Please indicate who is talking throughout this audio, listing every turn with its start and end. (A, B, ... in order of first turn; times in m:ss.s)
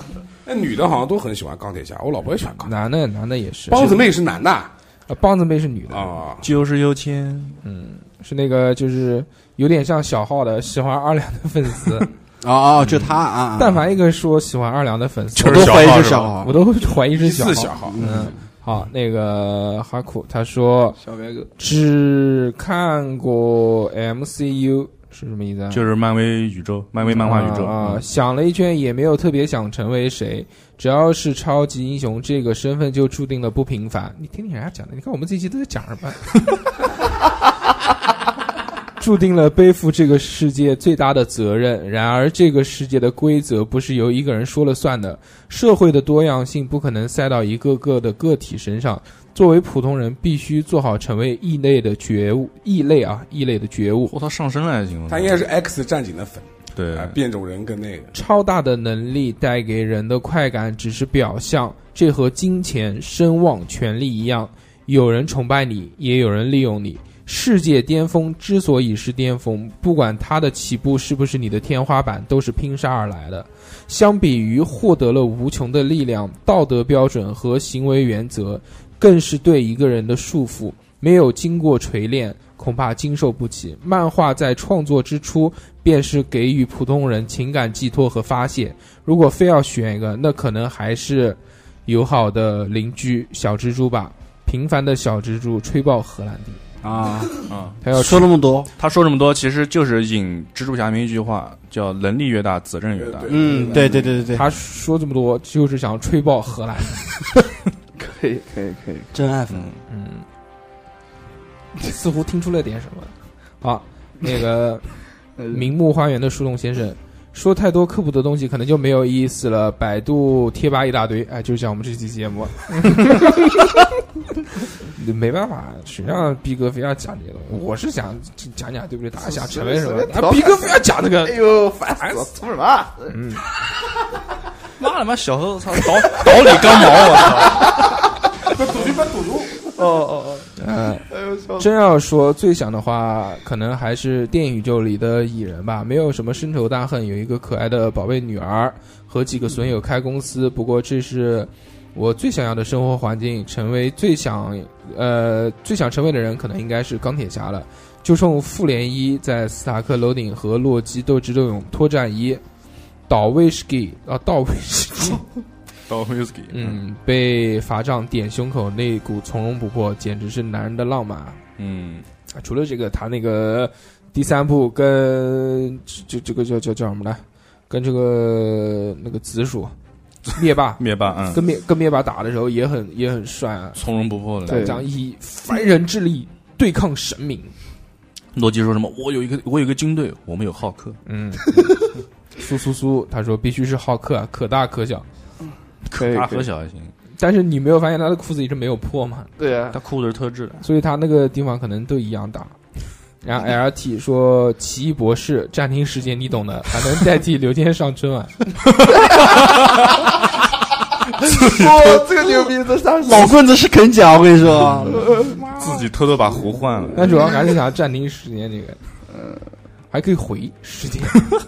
0:00.4-0:02.7 A
0:02.6-0:04.1 B
0:03.7-0:04.7 A
0:05.1-0:06.2 B
0:05.9-0:06.5 A
0:06.4-0:07.6 C
0:07.6-0:12.1 B
0:12.4-0:13.8 D
0:12.8-0:13.2 C
0:13.6-0:21.0 B
0:15.4-0:16.5 D
0:15.4-0:16.4 C
0:16.8-0:18.0 A
0:17.8-0:18.4 D
0:21.0-0:21.5 E
0:21.6-0:25.8 B
0:25.7-0:28.0 C
0:27.1-0:36.4 B
0:39.0-0:54.1 B
0:54.1-0:55.4 C
0:55.1-0:58.1 A
0:56.8-0:57.2 C
0:58.1-1:36.6 B
1:36.8-1:37.4 D
1:37.5-1:37.8 C
1:37.8-1:38.3 B
1:37.9-1:38.7 D
1:38.8-1:43.3 C
1:42.9-1:44.3 A
1:43.3-1:44.5 D
1:43.6-1:44.0 E
1:44.3-1:47.4 B
1:48.0-1:49.1 E
1:49.1-1:49.7 D
1:49.5-1:49.8 C
1:49.9-1:50.2 B
1:51.8-2:03.7 B
1:55.4-1:55.7 E
2:04.8-2:12.2 B
2:09.2-2:13.2 E
2:13.1-2:13.4 B
2:14.8-2:18.0 C
2:16.2-2:17.9 E
2:18.5-2:19.7 A
2:18.7-2:19.0 E
2:19.6-2:20.5 E
2:20.6-2:42.4 B
2:21.1-2:21.7 E
2:43.1-2:45.2 B
2:45.9-2:46.8 C
2:46.5-2:51.4 B
2:51.6-2:52.0 C
2:52.3-2:59.7 B
3:00.3-3:03.8 B
3:00.8-3:01.4 C
3:03.8-3:04.8 C
3:04.4-3:04.8 E
3:04.5-3:07.5 B
3:08.3-3:11.0 C
3:11.0-3:15.0 B
3:11.6-3:11.8 E
3:15.9-3:16.9 C
3:15.9-3:16.5 E
3:17.2-3:19.3 B
3:19.4-3:19.8 E
3:19.7-3:20.6 C
3:20.6-3:22.6 B
3:23.2-3:28.6 B
3:28.8-3:29.6 C
3:31.2-3:31.9 C
3:31.4-3:33.4 E
3:31.6-3:32.0 D
3:33.0-3:35.1 D
3:34.9-3:35.4 E
3:35.6-3:37.2 C
3:36.9-3:38.8 B
3:37.0-3:37.4 E
3:39.1-3:39.5 E
3:39.9-3:41.3 B